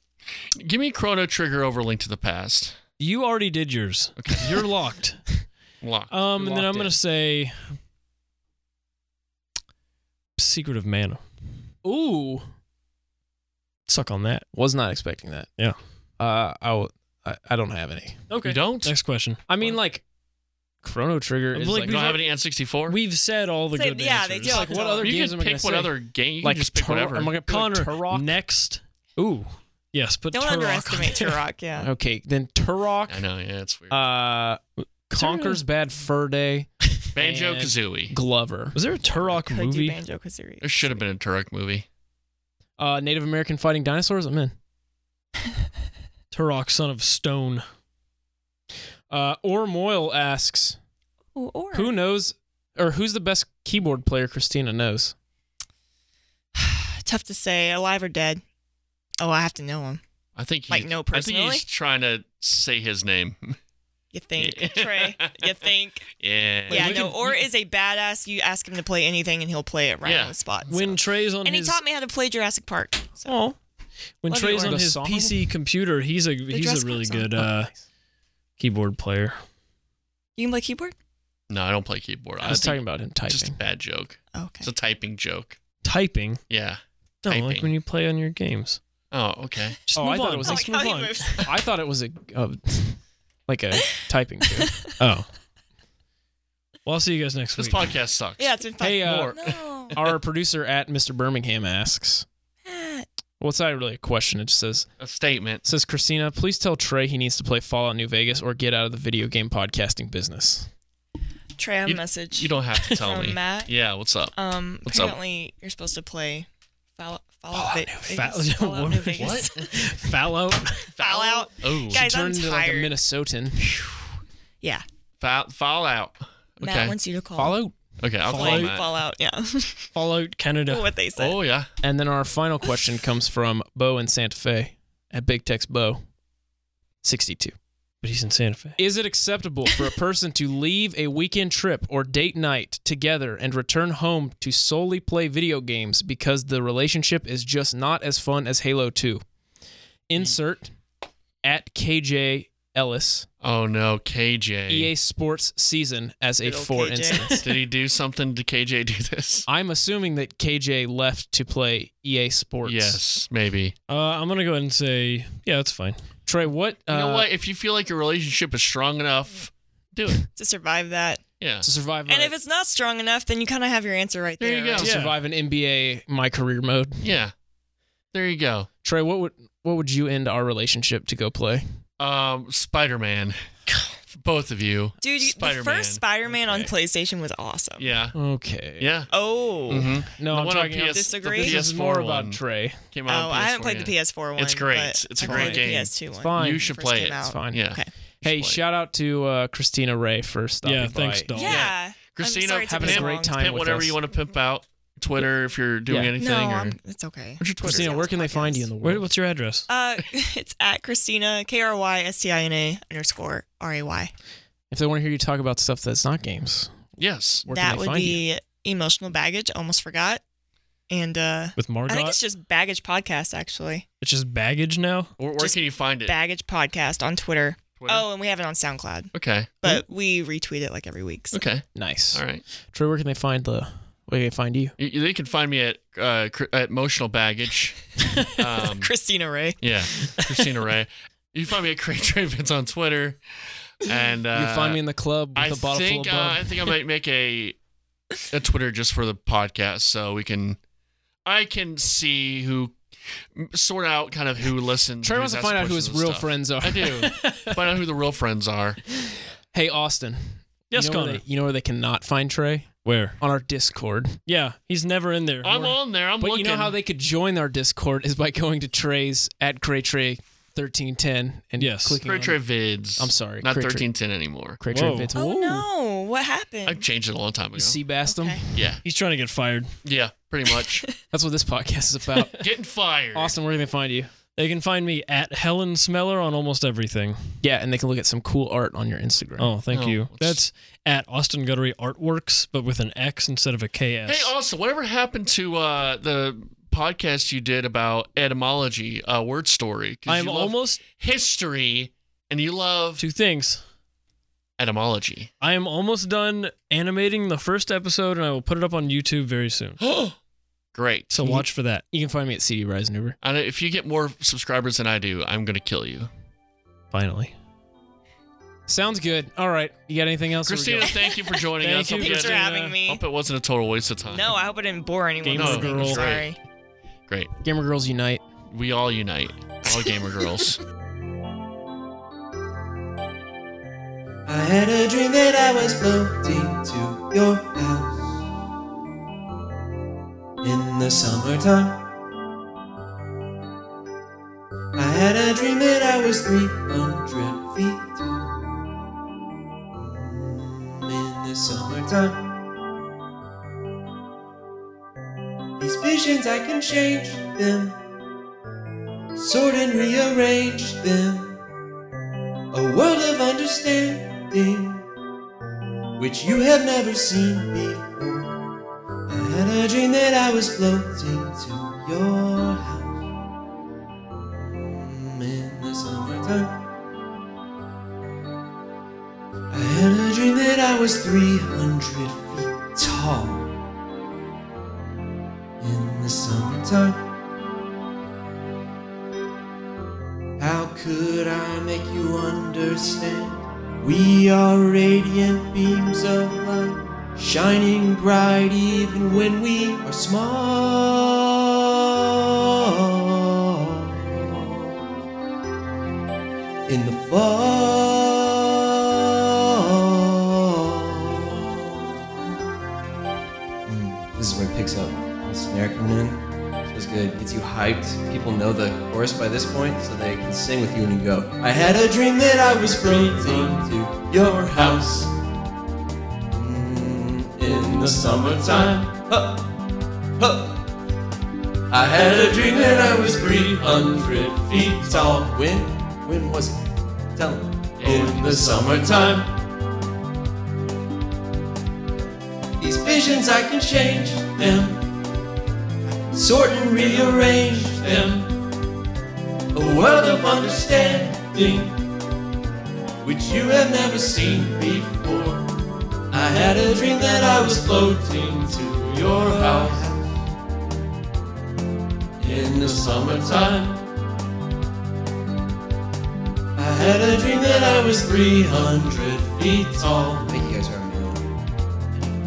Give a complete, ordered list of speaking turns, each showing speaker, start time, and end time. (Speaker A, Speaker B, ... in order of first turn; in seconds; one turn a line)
Speaker A: 0.5-2.8
Speaker B: 3.0-5.2
Speaker A: 4.2-4.6
Speaker A: 5.8-6.1
Speaker B: 6.1-7.8
Speaker C: 6.4-7.0
Speaker B: 10.4-11.2
Speaker C: 11.8-12.5
Speaker B: 13.9-14.4
Speaker C: 14.5-15.5
Speaker C: 16.2-18.2
Speaker B: 18.3-19.4
Speaker A: 18.4-18.9
Speaker C: 19.5-20.0
Speaker C: 20.8-22.1
Speaker B: 21.5-22.3
Speaker A: 21.9-23.0
Speaker B: 22.9-24.7
Speaker D: 23.7-25.1
Speaker C: 24.4-28.4
Speaker A: 25.0-27.3
Speaker B: 27.4-31.4
Speaker D: 30.3-31.9
Speaker C: 31.8-33.2
Speaker A: 33.1-34.0
Speaker C: 33.9-38.8
Speaker B: 35.1-35.6
Speaker A: 37.2-38.1
Speaker B: 38.8-40.0
Speaker D: 39.4-40.9
Speaker A: 40.6-41.9
Speaker C: 42.8-44.5
Speaker B: 46.3-47.6
Speaker C: 49.1-50.8
Speaker D: 51.3-51.9
Speaker C: 51.7-55.1
Speaker D: 56.5-58.4
Speaker D: 59.2-60.0
Speaker A: 60.4-63.6
Speaker D: 60.7-61.6
Speaker D: 64.1-66.1
Speaker A: 64.4-65.5
Speaker A: 66.2-67.0
Speaker D: 66.7-73.3
Speaker C: 66.7-67.3
Speaker B: 66.7-67.4
Speaker A: 70.0-70.3
Speaker B: 70.7-71.8
Speaker B: 73.3-73.6
Speaker B: 74.2-77.7
Speaker D: 74.3-74.8
Speaker C: 74.6-75.5
Speaker D: 76.5-77.3
Speaker C: 77.4-77.8
Speaker B: 78.6-79.4
Speaker D: 80.4-80.9
Speaker A: 81.5-85.6
Speaker C: 82.4-83.6
Speaker D: 84.3-84.7
Speaker B: 85.8-86.4
Speaker A: 86.5-87.7
Speaker B: 87.2-88.8
Speaker A: 89.1-89.8
Speaker B: 89.9-91.4
Speaker C: 90.0-90.9
Speaker D: 90.5-91.5
Speaker C: 91.4-95.1
Speaker B: 95.0-95.3
Speaker B: 96.9-97.9
Speaker A: 97.6-100.1
Speaker D: 98.4-100.0
Speaker C: 98.8-99.4
Speaker C: 99.9-102.2
Speaker D: 102.7-103.1
Speaker C: 103.4-104.9
Speaker A: 105.0-105.6
Speaker C: 105.7-110.7
Speaker D: 111.6-113.7
Speaker A: 111.9-114.3
Speaker D: 114.4-116.5
Speaker A: 114.8-115.2
Speaker D: 117.0-119.7
Speaker C: 117.5-118.3
Speaker B: 118.1-120.8
Speaker A: 119.2-119.7
Speaker A: 120.9-122.0
Speaker D: 121.0-122.9
Speaker C: 121.9-123.7
Speaker A: 125.2-127.0
Speaker D: 126.6-127.6
Speaker C: 127.4-127.8
Speaker A: 128.0-128.9
Speaker D: 128.3-129.8
Speaker B: 128.3-128.7
Speaker B: 129.9-130.9
Speaker D: 130.7-131.4
Speaker A: 131.2-131.7
Speaker C: 131.8-136.0
Speaker C: 137.0-137.6
Speaker B: 138.0-138.8
Speaker C: 138.8-149.2
Speaker C: 150.1-150.7
Speaker C: 151.4-153.3
Speaker A: 153.4-154.9
Speaker C: 154.7-157.5
Speaker D: 156.4-157.4
Speaker A: 157.4-159.5
Speaker C: 159.5-163.0
Speaker A: 162.6-163.7
Speaker B: 163.9-166.0
Speaker C: 166.3-167.3
Speaker A: 166.9-170.2
Speaker D: 170.4-171.2
Speaker A: 171.4-171.7
Speaker C: 171.6-172.3
Speaker D: 172.1-174.9
Speaker A: 174.4-174.9
Speaker C: 174.8-177.1
Speaker B: 174.8-175.2
Speaker A: 177.0-177.3
Speaker A: 178.1-178.7
Speaker C: 178.8-181.6
Speaker A: 182.0-183.4
Speaker A: 184.1-186.0
Speaker D: 185.0-187.9
Speaker C: 186.3-186.7
Speaker A: 187.8-188.2
Speaker C: 188.2-188.9
Speaker A: 188.8-189.1
Speaker D: 189.1-190.1
Speaker A: 189.7-192.4
Speaker C: 190.2-192.8
Speaker D: 190.8-191.6
Speaker A: 192.9-198.6
Speaker D: 193.1-197.9
Speaker C: 195.2-196.7
Speaker C: 197.2-197.7
Speaker C: 198.2-201.4
Speaker B: 200.7-201.7
Speaker D: 201.3-203.7
Speaker A: 201.4-206.8
Speaker C: 202.7-204.0
Speaker C: 205.9-206.2
Speaker D: 206.2-208.7
Speaker A: 207.4-208.0
Speaker C: 207.6-209.1
Speaker B: 208.8-209.7
Speaker D: 209.7-214.1
Speaker C: 214.7-216.9
Speaker A: 217.0-217.4
Speaker C: 217.4-218.2
Speaker D: 217.5-220.2
Speaker D: 220.9-223.8
Speaker B: 221.6-222.2
Speaker B: 224.0-225.1
Speaker A: 225.2-226.2
Speaker D: 225.4-231.4
Speaker A: 227.8-228.1
Speaker A: 229.1-229.6
Speaker A: 231.3-232.4
Speaker C: 231.8-234.8
Speaker A: 234.8-238.9
Speaker D: 238.8-239.6
Speaker A: 239.6-243.2
Speaker A: 243.8-244.8
Speaker C: 244.3-246.7
Speaker A: 245.3-247.6
Speaker A: 248.3-250.6
Speaker A: 251.2-252.8
Speaker A: 253.3-258.8
Speaker C: 255.0-257.6
Speaker C: 258.9-264.2
Speaker B: 260.7-261.2
Speaker B: 262.9-263.2
Speaker B: 264.3-265.8
Speaker A: 265.4-266.8
Speaker C: 266.2-272.4
Speaker B: 271.6-272.0
Speaker A: 272.0-274.6
Speaker C: 273.0-273.9
Speaker C: 274.6-275.7
Speaker B: 274.7-275.1
Speaker D: 275.2-276.8
Speaker A: 276.6-277.8
Speaker C: 277.6-278.6
Speaker D: 278.1-278.4
Speaker A: 278.5-278.8
Speaker B: 278.8-279.7
Speaker A: 279.8-280.9
Speaker D: 280.6-280.9
Speaker C: 281.1-282.5
Speaker A: 282.3-283.4
Speaker C: 283.1-284.1
Speaker B: 284.4-287.2
Speaker C: 287.4-289.5
Speaker B: 289.4-294.3
Speaker A: 289.7-290.4
Speaker A: 294.1-303.0
Speaker B: 300.1-300.8
Speaker B: 303.0-303.6
Speaker A: 304.6-305.3
Speaker B: 305.4-309.8
Speaker A: 309.8-310.2
Speaker A: 310.7-311.1
Speaker B: 311.1-311.8
Speaker C: 311.2-313.2
Speaker A: 313.2-316.1
Speaker B: 316.9-317.3
Speaker C: 318.7-321.1
Speaker A: 320.4-324.4
Speaker B: 321.6-322.8
Speaker D: 321.9-323.0
Speaker D: 324.1-326.4
Speaker B: 325.2-326.1
Speaker A: 325.3-326.3
Speaker C: 327.4-328.2
Speaker A: 328.5-330.6
Speaker E: 334.3-338.2
Speaker E: 340.4-341.8
Speaker E: 344.8-348.4
Speaker E: 349.7-352.2
Speaker E: 355.6-357.8
Speaker E: 359.1-361.4
Speaker E: 362.5-364.8
Speaker E: 366.0-368.4
Speaker E: 369.1-373.1
Speaker E: 374.3-376.6
Speaker E: 379.5-383.5
Speaker E: 385.6-387.0
Speaker E: 390.4-404.7
Speaker E: 406.7-408.5
Speaker E: 409.5-412.2
Speaker E: 413.7-425.1
Speaker E: 426.3-429.3
Speaker E: 430.2-430.6
Speaker E: 431.7-436.6
Speaker E: 437.2-439.3
Speaker A: 437.8-438.2
Speaker E: 442.6-444.9
Speaker E: 445.9-448.3
Speaker E: 449.5-451.8
Speaker E: 453.0-455.5
Speaker E: 456.1-460.2
Speaker E: 462.2-463.8
Speaker E: 466.6-471.2